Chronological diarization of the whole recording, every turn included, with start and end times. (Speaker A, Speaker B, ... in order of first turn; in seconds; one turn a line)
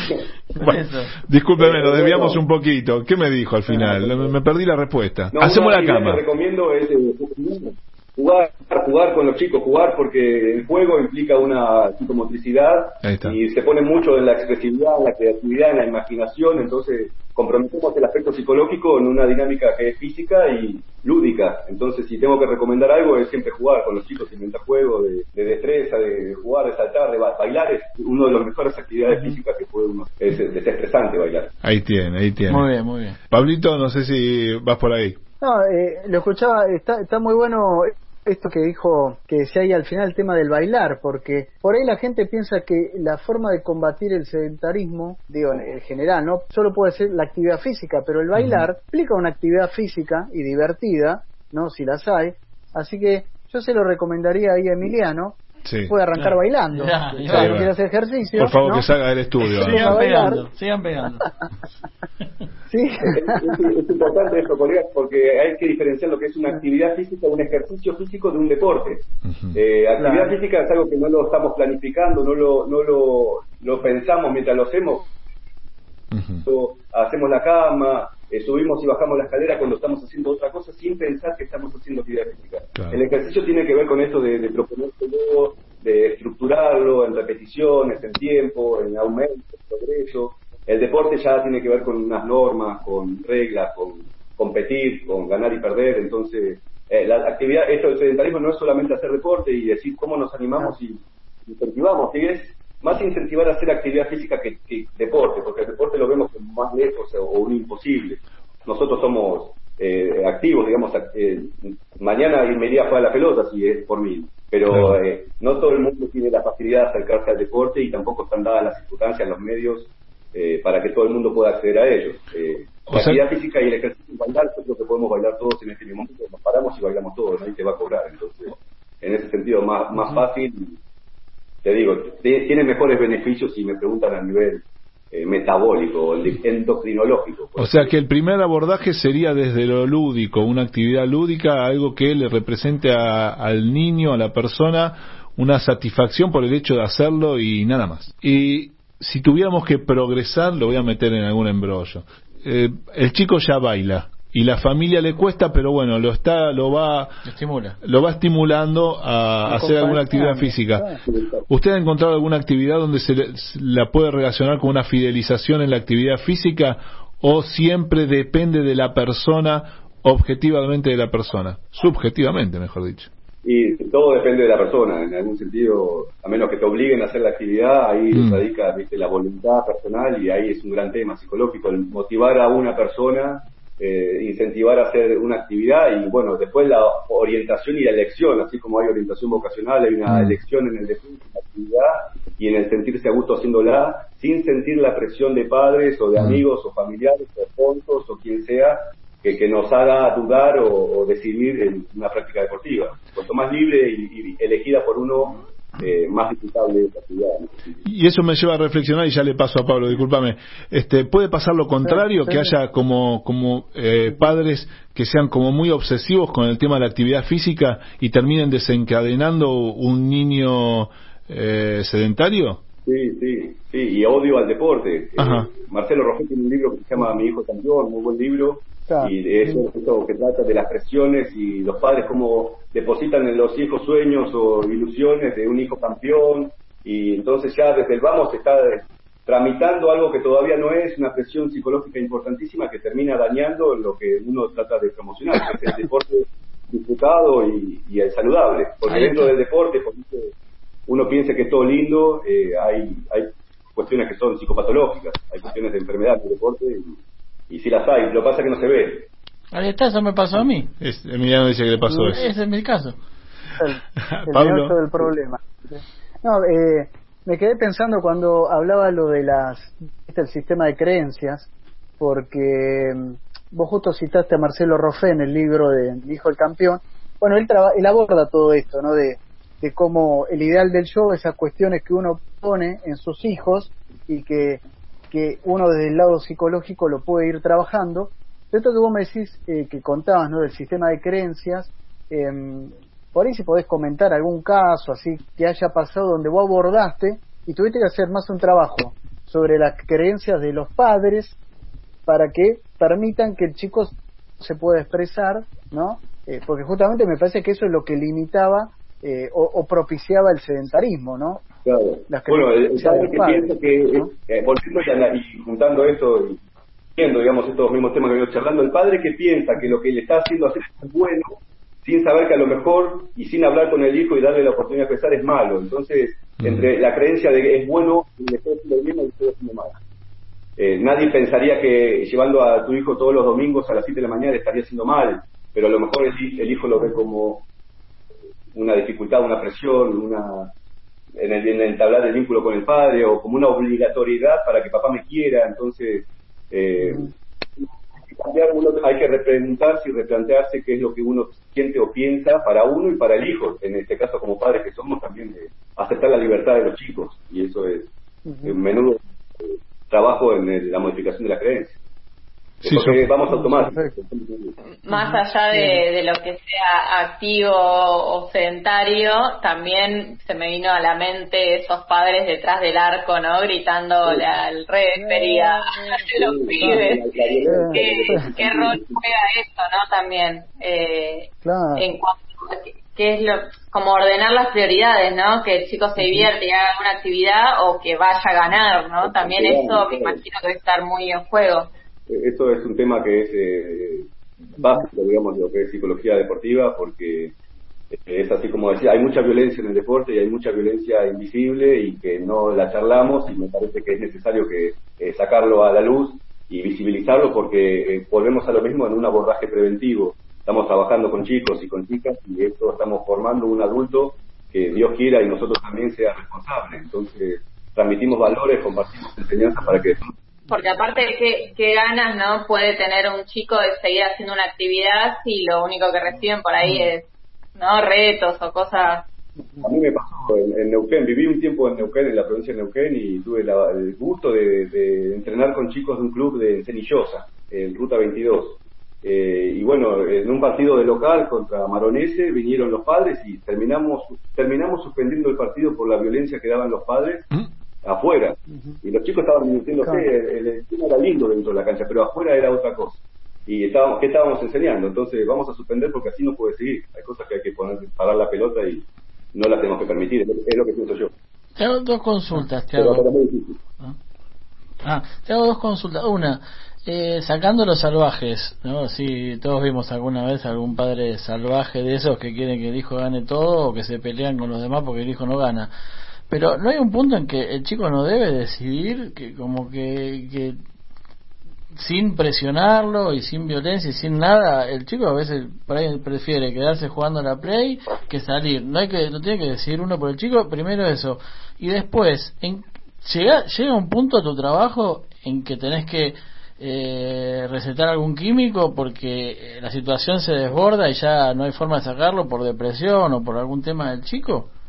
Speaker A: 0.6-1.1
Speaker B: 0.6-6.2
Speaker C: 1.6-2.4
Speaker C: 3.7-4.3
Speaker C: 5.3-31.5
Speaker B: 13.0-13.4
Speaker B: 31.6-32.7
Speaker A: 32.5-33.2
Speaker B: 33.3-35.2
Speaker D: 35.4-58.9
Speaker B: 48.4-48.7
Speaker B: 55.6-55.9
Speaker A: 56.1-57.7
Speaker B: 57.3-57.7
Speaker B: 58.3-60.3
Speaker A: 59.5-61.3
Speaker D: 59.5-60.5
Speaker D: 62.7-63.6
Speaker C: 63.1-75.1
Speaker B: 69.2-69.6
Speaker D: 70.0-70.3
Speaker B: 76.1-76.5
Speaker C: 76.4-130.8
Speaker B: 82.8-83.0
Speaker B: 114.7-115.0
Speaker B: 122.9-123.2
Speaker C: 131.6-137.9
Speaker B: 137.6-157.2
Speaker A: 157.2-157.8
Speaker B: 157.8-160.9
Speaker D: 159.4-161.0
Speaker C: 161.1-161.4
Speaker B: 161.5-173.1
Speaker C: 173.4-207.8
Speaker B: 178.1-178.4
Speaker B: 190.1-190.3
Speaker B: 196.2-196.4
Speaker B: 207.8-222.6
Speaker D: 211.8-212.5
Speaker C: 222.9-250.3
Speaker B: 225.2-225.5
Speaker D: 228.9-229.7
Speaker A: 248.9-249.3
Speaker C: 250.9-257.0
Speaker C: 257.5-259.1
Speaker A: 259.5-260.7
Speaker B: 260.8-262.2
Speaker D: 261.9-262.2
Speaker A: 262.1-263.0
Speaker D: 263.6-271.5
Speaker B: 264.1-264.8
Speaker D: 272.0-301.4
Speaker D: 302.1-311.4
Speaker C: 311.7-316.4
Speaker D: 312.1-314.1
Speaker C: 317.0-329.8
Speaker B: 326.4-326.7
Speaker C: 330.6-337.5
Speaker C: 338.5-340.5
Speaker C: 341.2-357.9
Speaker D: 346.8-347.1
Speaker D: 358.3-358.6
Speaker C: 358.4-361.8
Speaker C: 362.6-364.6
Speaker B: 362.6-363.1
Speaker D: 363.3-363.9
Speaker E: 364.8-391.7
Speaker D: 364.9-365.8
Speaker D: 374.9-376.1
Speaker C: 376.2-379.0
Speaker D: 376.6-376.9
Speaker D: 377.4-378.3
Speaker D: 381.4-381.9
Speaker D: 386.0-386.3
Speaker C: 389.0-390.2
Speaker C: 392.1-394.1
Speaker C: 394.6-397.3
Speaker C: 397.9-420.1
Speaker E: 420.5-429.1
Speaker C: 429.6-447.3
Speaker C: 447.8-461.1
Speaker D: 448.5-448.8
Speaker D: 449.8-450.1
Speaker A: 461.6-463.1
Speaker C: 462.7-463.6
Speaker A: 464.8-475.7
Speaker A: 476.3-480.6
Speaker A: 481.8-504.5